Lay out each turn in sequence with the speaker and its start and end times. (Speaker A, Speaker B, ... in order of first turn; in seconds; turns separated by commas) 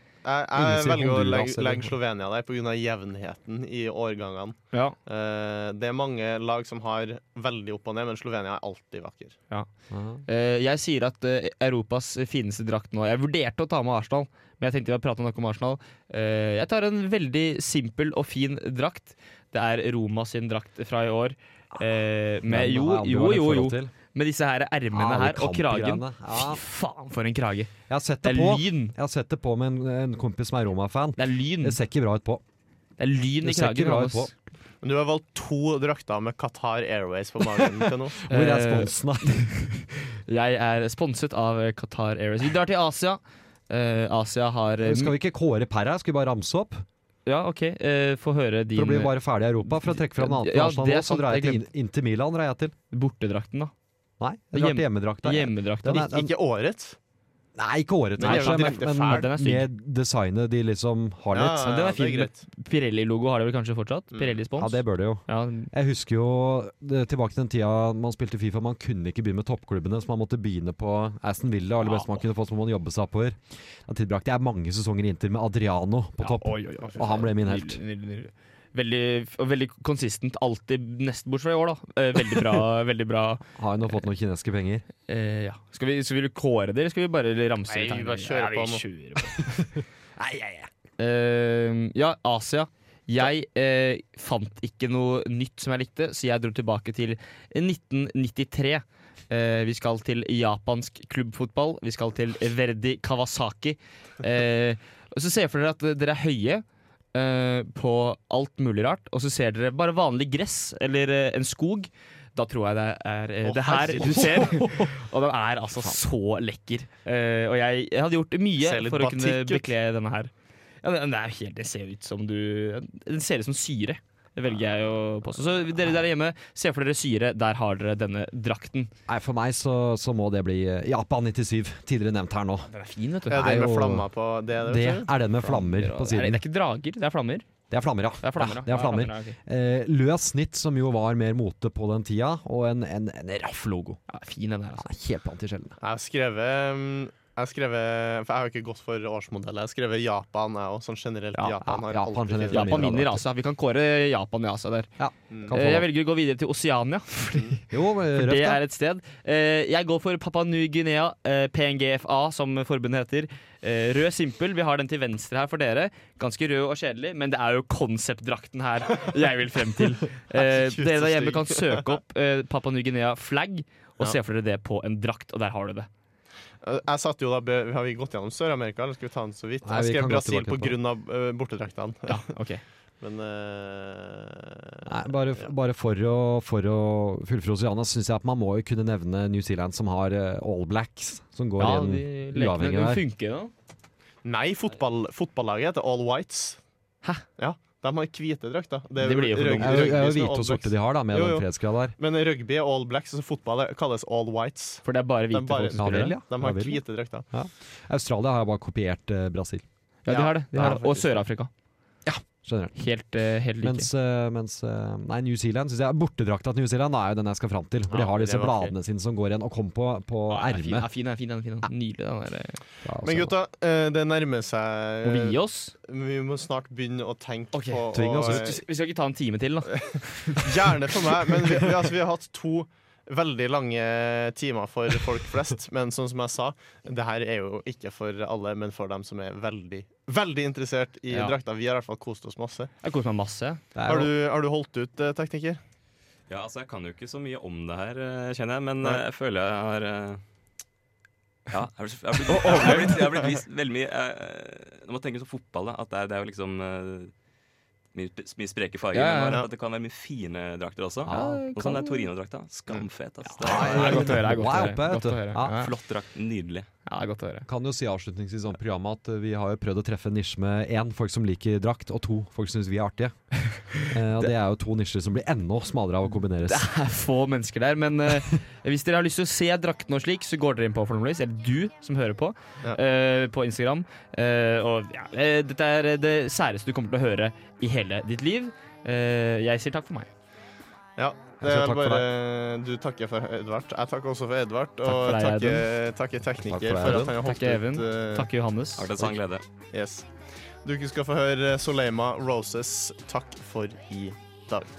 Speaker A: 0.2-9.4, Speaker B: 0.6-1.9, Speaker B: 9.9-10.2, Speaker C: 10.3-27.7, Speaker B: 22.4-23.9, Speaker B: 24.9-26.6, Speaker B: 27.9-32.4, Speaker C: 28.2-28.9, Speaker C: 31.2-31.8, Speaker C: 33.0-34.3, Speaker B: 33.4-34.3, Speaker A: 34.8-38.2, Speaker B: 38.2-39.5, Speaker C: 38.3-45.1, Speaker B: 44.8-46.9, Speaker C: 47.3-51.6, Speaker B: 48.7-52.7, Speaker C: 52.9-53.7, Speaker B: 54.2-56.3, Speaker C: 54.5-56.1, Speaker A: 55.9-57.0, Speaker B: 57.6-61.9, Speaker A: 58.2-59.3, Speaker C: 58.2-59.7, Speaker A: 61.3-62.4, Speaker C: 61.7-65.7, Speaker B: 64.6-77.8, Speaker C: 71.8-72.2, Speaker C: 76.2-83.4, Speaker B: 83.6-84.8, Speaker C: 85.1-89.7, Speaker A: 87.7-88.8, Speaker C: 90.2-120.3, Speaker A: 113.5-114.5, Speaker B: 113.9-114.9, Speaker A: 118.6-119.7, Speaker C: 120.8-128.9, Speaker B: 129.1-132.7, Speaker C: 132.7-133.4, Speaker B: 133.3-134.1, Speaker A: 133.3-135.1, Speaker B: 134.6-136.4, Speaker C: 135.4-137.4, Speaker B: 137.7-144.0, Speaker C: 138.2-139.4, Speaker C: 144.1-144.9, Speaker B: 144.8-145.7, Speaker A: 145.8-152.9, Speaker B: 151.6-153.2, Speaker C: 152.5-154.9, Speaker B: 155.0-155.9, Speaker C: 155.5-157.6, Speaker B: 157.7-158.6, Speaker C: 158.2-175.9, Speaker A: 170.3-172.0, Speaker A: 176.6-182.3, Speaker B: 179.6-180.8, Speaker C: 182.1-182.6, Speaker A: 183.0-185.5, Speaker B: 184.8-193.0, Speaker C: 191.6-193.5, Speaker A: 194.2-196.6, Speaker A: 197.4-201.5, Speaker C: 199.0-199.8, Speaker B: 199.6-201.9, Speaker A: 202.0-207.3, Speaker C: 204.8-206.2, Speaker B: 205.8-209.6, Speaker C: 210.1-211.5, Speaker A: 210.1-211.2, Speaker B: 212.1-212.7, Speaker C: 212.7-213.9, Speaker B: 213.6-220.9, Speaker A: 217.9-218.7, Speaker C: 220.3-222.6, Speaker B: 222.8-223.3, Speaker A: 223.0-228.6, Speaker C: 225.0-225.7, Speaker C: 227.5-230.4, Speaker B: 227.9-228.5, Speaker A: 230.3-242.7, Speaker C: 242.8-243.6, Speaker B: 243.7-244.1, Speaker A: 243.8-245.6, Speaker D: 246.3-250.2, Speaker D: 251.5-257.1, Speaker A: 252.3-253.4, Speaker C: 252.4-252.7, Speaker D: 257.9-264.1, Speaker C: 258.9-259.4, Speaker B: 261.1-261.4, Speaker C: 261.1-262.0, Speaker C: 263.2-265.7, Speaker B: 263.4-265.6, Speaker D: 265.5-266.7, Speaker C: 266.9-267.4, Speaker B: 267.5-273.2, Speaker C: 273.4-274.3, Speaker B: 273.8-276.7, Speaker C: 276.4-290.1, Speaker A: 291.0-298.3, Speaker B: 291.4-292.1, Speaker C: 294.9-295.6, Speaker B: 296.4-297.1, Speaker C: 296.9-299.1, Speaker D: 298.8-299.4, Speaker A: 299.7-300.1, Speaker A: 300.6-304.7